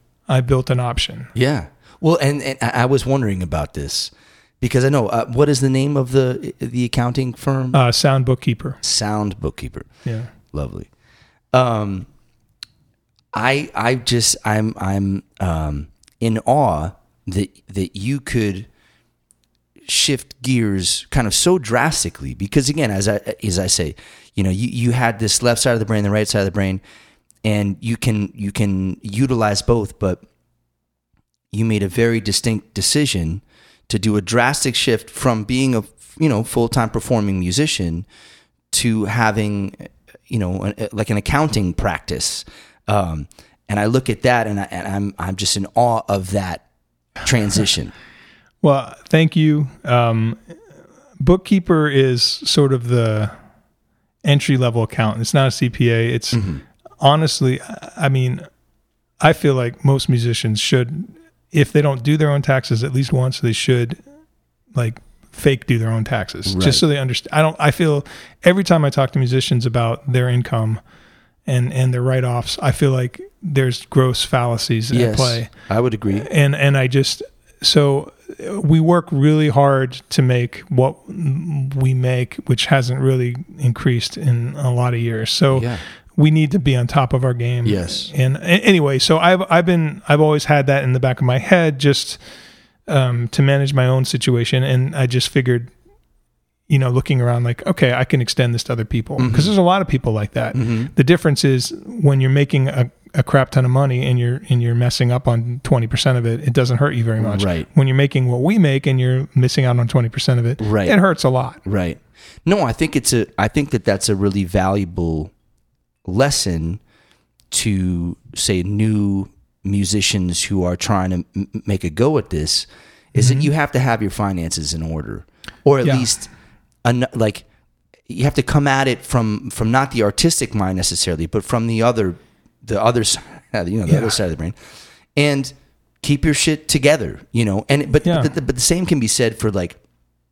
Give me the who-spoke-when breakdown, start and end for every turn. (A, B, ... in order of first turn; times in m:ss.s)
0:00.3-0:01.3 A
0:01.3-0:07.8 B
0:07.7-0:08.8 A
0:08.8-0:09.9 B
0:10.0-0:10.3 A
0:10.5-0:10.9 B
0:11.5-0:12.1 B
0:13.3-0:18.7 B
0:19.8-0:26.8 B
0:27.4-0:30.2 B
0:31.5-0:38.0 B
0:38.7-0:46.6 B
0:47.2-0:47.9 B
0:48.6-0:50.6 A
0:51.2-0:53.3 A
0:54.2-0:56.4 A
0:56.3-0:56.6 B
0:57.0-0:58.4 A
0:59.2-1:04.0 A
1:04.7-1:10.8 A
1:06.4-1:06.8 B
1:11.4-1:15.5 A
1:14.9-1:16.3 B
1:16.1-1:32.2 A
1:25.5-1:25.8 B
1:27.6-1:28.1 B
1:32.9-1:35.7 A
1:36.7-1:51.6 A
1:39.2-1:39.5 B
1:40.5-1:40.9 B
1:47.2-1:47.7 B
1:50.6-1:51.0 B
1:51.6-1:55.3 B
1:56.0-1:56.8 B
1:57.5-2:06.3 B
2:03.2-2:03.5 A
2:06.8-2:07.4 B
2:08.1-2:14.6 B
2:13.9-2:14.1 A
2:15.2-2:19.8 B
2:18.0-2:18.3 A